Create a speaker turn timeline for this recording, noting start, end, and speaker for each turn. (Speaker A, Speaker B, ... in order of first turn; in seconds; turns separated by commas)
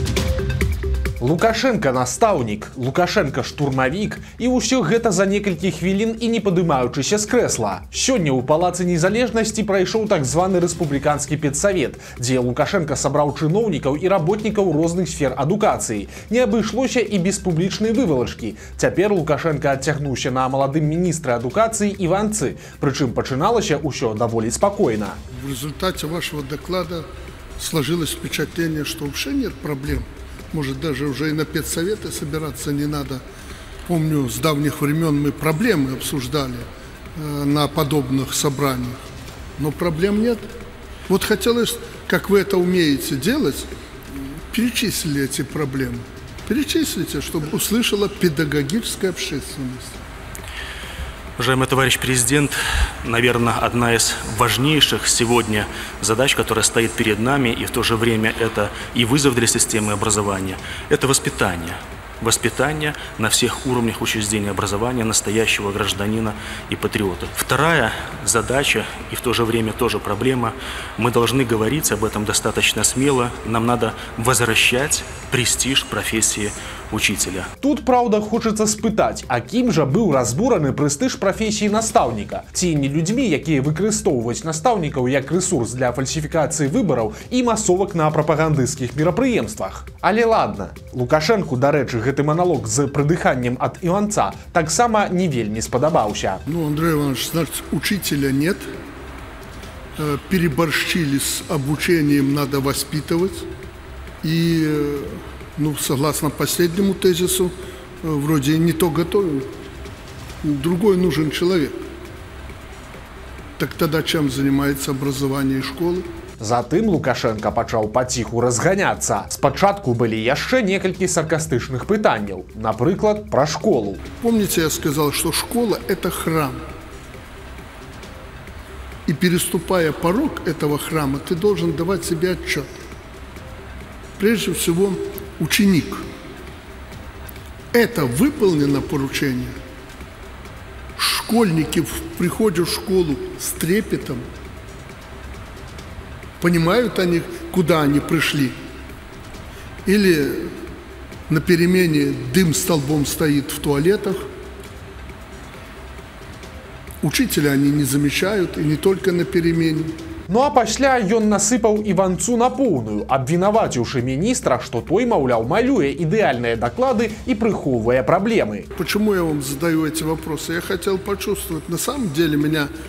Speaker A: 1.2-25.2, Speaker B: 25.3-33.2, Speaker B: 33.9-39.0, Speaker B: 39.6-40.5, Speaker B: 41.1-50.0, Speaker C: 51.4-77.5, Speaker A: 77.6-96.4, Speaker B: 96.5-98.7, Speaker B: 100.0-103.5, Speaker B: 104.2-109.5, Speaker B: 110.4-111.8, Speaker B: 113.6-116.1, Speaker A: 116.4-124.0, Speaker B: 124.2-126.6, Speaker B: 129.1-132.7, Speaker B: 134.2-136.1, Speaker B: 137.7-139.6, Speaker B: 141.0-144.3, Speaker B: 146.4-148.6, Speaker B: 149.9-150.6, Speaker B: 151.3-154.2, Speaker B: 157.0-160.0, Speaker A: 160.3-168.7, Speaker B: 168.8-172.7